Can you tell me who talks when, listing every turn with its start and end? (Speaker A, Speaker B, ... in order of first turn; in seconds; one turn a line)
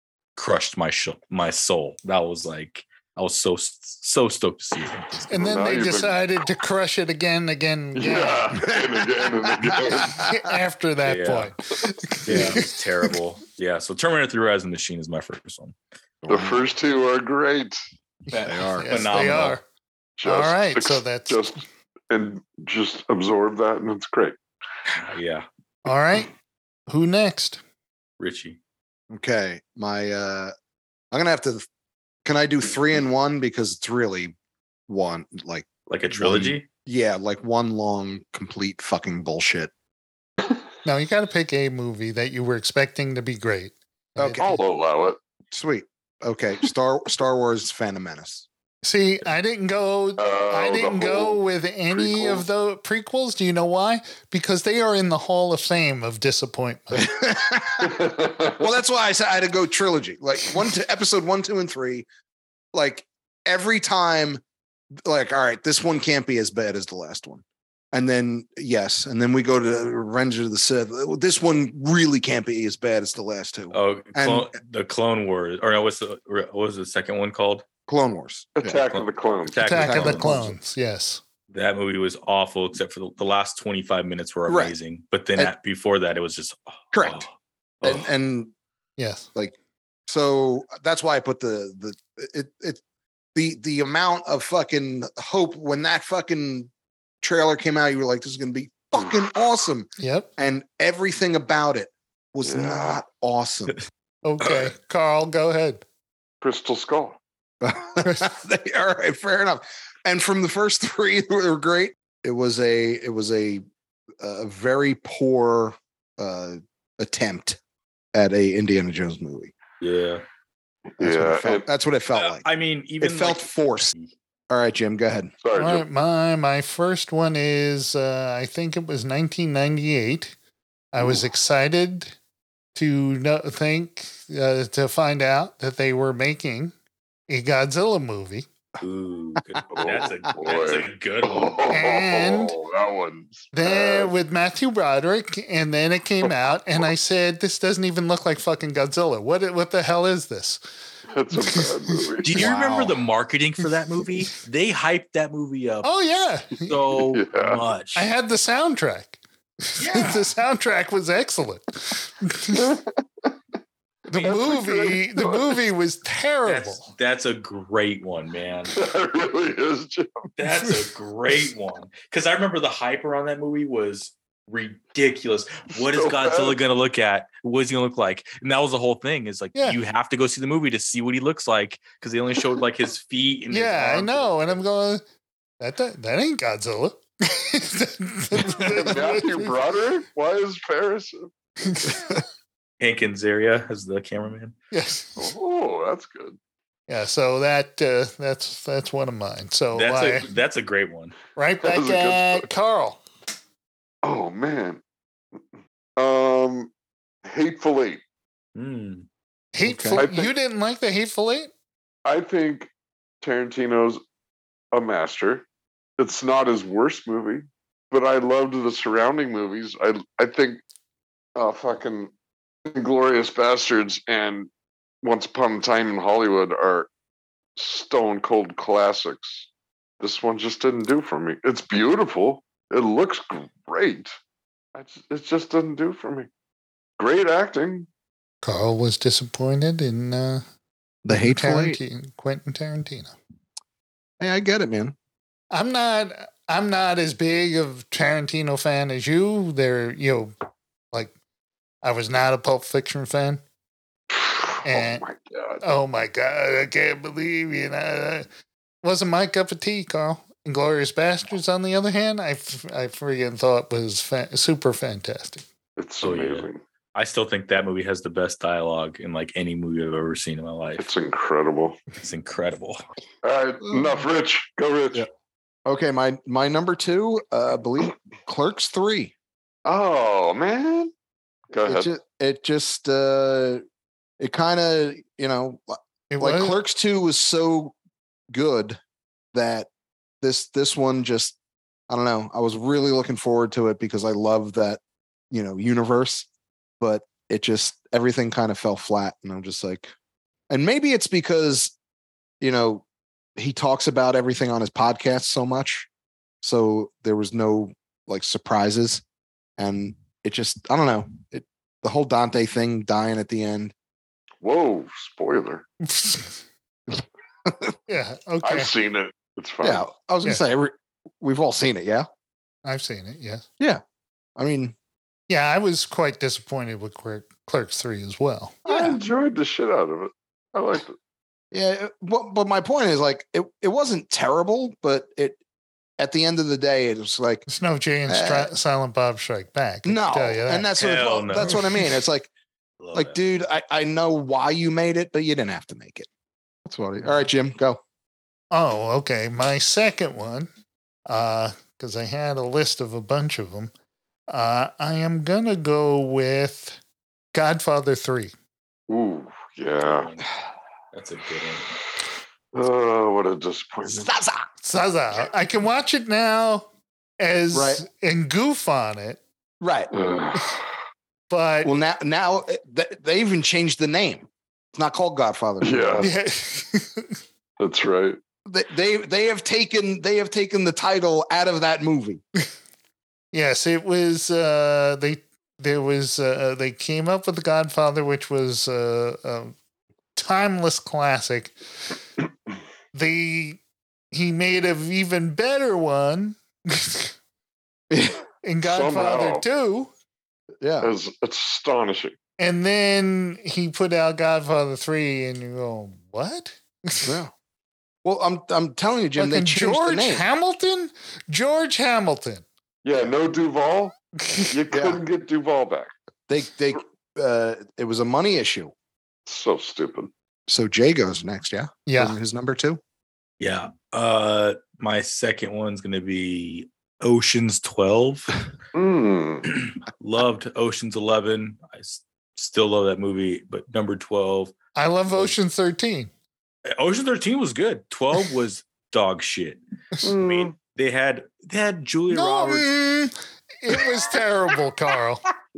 Speaker A: 0.4-5.7
Speaker B: 5.3-8.7
Speaker C: 5.4-6.4
Speaker C: 8.0-10.3
Speaker D: 9.6-10.3
Speaker B: 10.1-12.8
Speaker A: 11.0-11.5
Speaker D: 12.2-12.6
Speaker A: 12.2-15.8
Speaker D: 16.2-16.6
Speaker C: 16.3-17.8
Speaker A: 18.3-19.6
Speaker B: 18.3-19.6
Speaker D: 18.4-19.0
Speaker C: 20.2-24.4
Speaker B: 20.2-21.5
Speaker A: 24.9-25.5
Speaker B: 25.9-26.3
Speaker B: 26.9-27.6
Speaker A: 28.2-28.6
Speaker D: 29.1-30.5
Speaker D: 31.1-31.7
Speaker D: 32.2-34.4
Speaker D: 34.9-39.7
Speaker A: 35.9-36.7
Speaker B: 40.9-44.5
Speaker D: 44.2-44.6
Speaker C: 44.4-45.2
Speaker D: 45.5-48.5
Speaker B: 48.8-57.2
Speaker C: 50.2-51.4
Speaker C: 51.9-52.5
Speaker D: 56.9-62.1
Speaker C: 57.8-58.6
Speaker D: 62.7-64.4
Speaker D: 65.0-74.5
Speaker A: 73.7-77.7
Speaker D: 77.9-78.8
Speaker C: 78.6-79.6
Speaker A: 78.9-80.5
Speaker B: 79.6-81.2
Speaker D: 79.7-80.6
Speaker A: 81.5-87.3
Speaker D: 84.5-84.7
Speaker D: 86.9-87.3
Speaker D: 87.8-88.5
Speaker B: 89.0-89.3
Speaker D: 90.1-92.8
Speaker D: 93.3-96.7
Speaker D: 97.2-103.8
Speaker B: 100.0-100.3
Speaker C: 102.5-103.0
Speaker B: 104.2-105.8
Speaker A: 104.4-104.7
Speaker C: 106.4-107.2
Speaker D: 107.6-113.6
Speaker B: 108.0-108.3
Speaker D: 114.2-117.6
Speaker D: 118.1-119.5
Speaker A: 119.8-120.2
Speaker C: 121.0-121.7
Speaker D: 121.0-122.5
Speaker A: 122.1-124.1
Speaker D: 123.0-123.9
Speaker D: 124.5-125.3
Speaker C: 125.4-125.8
Speaker B: 125.6-130.3
Speaker B: 130.9-132.2
Speaker B: 132.8-136.7
Speaker B: 137.3-138.5
Speaker A: 138.8-141.6
Speaker C: 139.7-144.1
Speaker B: 141.7-142.6
Speaker B: 143.5-150.6
Speaker C: 146.2-146.9
Speaker C: 151.1-152.4
Speaker B: 151.3-152.0
Speaker A: 152.2-155.9
Speaker D: 152.3-153.0
Speaker B: 155.8-156.8
Speaker A: 156.6-158.1
Speaker C: 157.0-157.6
Speaker B: 157.9-162.8
Speaker A: 159.8-160.3
Speaker C: 162.5-163.3
Speaker B: 164.1-166.9
Speaker C: 164.1-165.6
Speaker A: 166.4-168.7
Speaker C: 168.7-170.3
Speaker A: 170.4-184.6
Speaker C: 175.8-176.6
Speaker B: 183.5-185.0
Speaker B: 185.6-189.5
Speaker C: 188.4-191.9
Speaker B: 191.7-192.0
Speaker A: 192.8-194.6
Speaker B: 194.7-195.3
Speaker C: 195.2-196.4
Speaker B: 196.9-200.3
Speaker A: 199.7-201.2
Speaker B: 201.4-203.0
Speaker C: 201.6-202.5
Speaker C: 204.0-204.8
Speaker C: 206.0-206.7
Speaker C: 207.2-208.0
Speaker A: 208.6-209.1
Speaker B: 209.5-211.5
Speaker D: 209.7-210.0
Speaker C: 210.0-210.3
Speaker C: 212.1-212.7
Speaker C: 213.2-214.0
Speaker C: 214.7-215.4
Speaker C: 216.0-220.6
Speaker C: 221.4-222.1
Speaker C: 222.7-224.5
Speaker C: 225.0-226.9
Speaker C: 227.6-229.5
Speaker C: 230.0-234.1
Speaker C: 234.8-236.3
Speaker C: 237.0-237.9
Speaker B: 238.4-240.4
Speaker D: 241.1-241.8
Speaker B: 241.1-243.2
Speaker D: 244.2-245.0
Speaker B: 245.5-250.3
Speaker B: 251.8-253.4
Speaker C: 254.1-255.7
Speaker B: 254.7-255.0
Speaker B: 255.6-258.3
Speaker B: 258.8-265.4
Speaker C: 265.8-266.6
Speaker A: 266.0-270.9
Speaker C: 270.8-271.8
Speaker A: 272.0-272.8
Speaker C: 273.2-275.1
Speaker D: 273.7-274.0
Speaker D: 275.7-279.1
Speaker C: 279.6-280.9
Speaker C: 281.5-281.9
Speaker D: 281.7-283.6
Speaker D: 284.2-287.8
Speaker B: 286.1-286.6
Speaker D: 288.3-288.8
Speaker D: 289.3-289.7
Speaker D: 290.2-291.4
Speaker D: 291.9-294.8
Speaker D: 295.3-296.3
Speaker D: 296.8-299.9
Speaker D: 300.5-301.8
Speaker D: 302.4-302.8
Speaker D: 303.4-305.9
Speaker D: 306.4-309.0
Speaker D: 309.6-313.7
Speaker C: 314.4-315.6
Speaker B: 315.8-316.4
Speaker D: 317.5-317.7
Speaker B: 317.9-318.7
Speaker C: 318.4-319.9
Speaker D: 319.6-322.1
Speaker B: 322.6-323.5
Speaker D: 324.4-324.8
Speaker B: 325.3-328.6
Speaker C: 328.6-331.0
Speaker D: 328.7-329.0
Speaker D: 331.5-335.4
Speaker D: 336.0-337.4
Speaker B: 337.5-340.7
Speaker D: 338.1-338.5
Speaker D: 339.9-342.3
Speaker A: 340.8-341.6
Speaker B: 341.3-341.6
Speaker A: 342.8-343.2
Speaker D: 342.9-346.1
Speaker D: 346.7-347.8
Speaker B: 348.5-350.5
Speaker B: 351.1-353.7
Speaker B: 354.3-356.8
Speaker B: 357.3-358.3
Speaker C: 358.9-360.1
Speaker A: 359.8-360.3
Speaker A: 360.9-361.8
Speaker C: 362.5-364.1
Speaker D: 363.9-364.5
Speaker B: 364.6-366.7
Speaker B: 367.2-369.2
Speaker D: 367.5-367.9
Speaker D: 369.6-369.9
Speaker C: 369.9-370.7
Speaker B: 371.3-371.7
Speaker D: 371.6-376.1
Speaker C: 375.6-376.1
Speaker B: 376.0-377.2
Speaker C: 377.6-378.2
Speaker D: 378.5-382.2
Speaker B: 383.3-389.5
Speaker B: 390.2-391.5
Speaker B: 392.9-393.6
Speaker B: 394.1-397.1
Speaker D: 397.9-398.2
Speaker B: 398.4-399.9
Speaker C: 398.6-399.4
Speaker D: 400.6-400.9
Speaker C: 400.8-402.2
Speaker B: 402.4-407.1
Speaker D: 407.0-407.3
Speaker D: 408.0-410.3
Speaker B: 409.2-412.4
Speaker C: 412.8-415.9
Speaker B: 414.2-414.5
Speaker D: 414.7-415.0
Speaker D: 416.3-418.7
Speaker C: 419.3-420.1
Speaker D: 420.5-422.8
Speaker B: 421.9-422.2
Speaker A: 423.4-428.3
Speaker C: 428.7-429.5
Speaker A: 429.5-434.5
Speaker B: 434.8-436.1
Speaker A: 436.7-442.7
Speaker C: 440.0-440.5
Speaker B: 442.1-445.2